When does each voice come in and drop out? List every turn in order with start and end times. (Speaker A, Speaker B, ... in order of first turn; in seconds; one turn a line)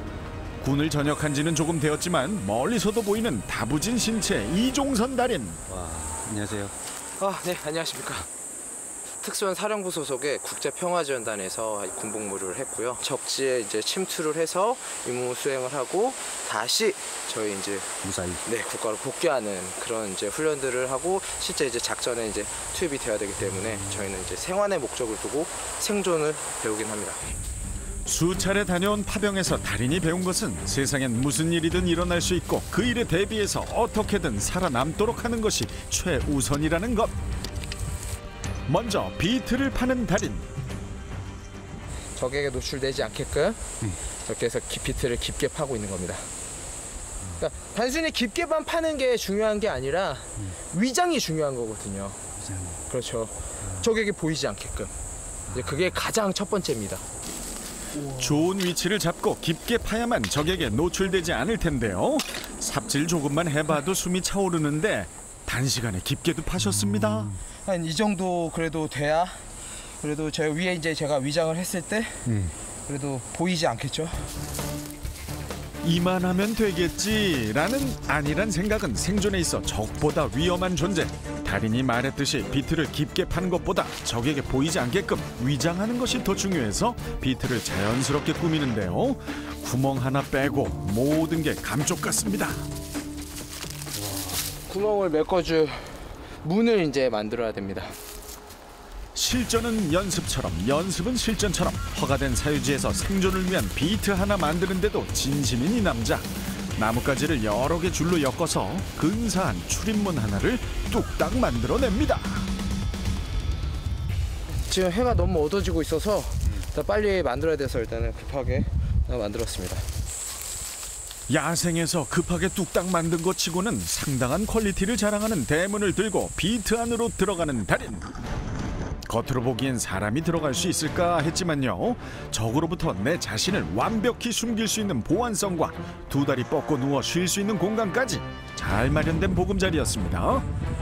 Speaker A: 0.6-5.7
Speaker B: 5.7-6.8
Speaker C: 7.2-8.3
Speaker C: 9.2-27.2
Speaker B: 18.0-18.4
Speaker A: 28.1-37.1
Speaker A: 38.7-40.5
Speaker C: 42.2-46.3
Speaker C: 47.4-52.2
Speaker B: 52.4-52.8
Speaker C: 52.9-54.9
Speaker C: 55.5-57.0
Speaker A: 58.0-67.4
Speaker C: 67.6-69.5
Speaker C: 70.0-74.3
Speaker A: 75.8-92.7
Speaker C: 94.0-98.0
Speaker A: 99.2-112.5
Speaker C: 114.6-119.8
Speaker A: 121.3-128.1
Speaker A: 129.1-140.5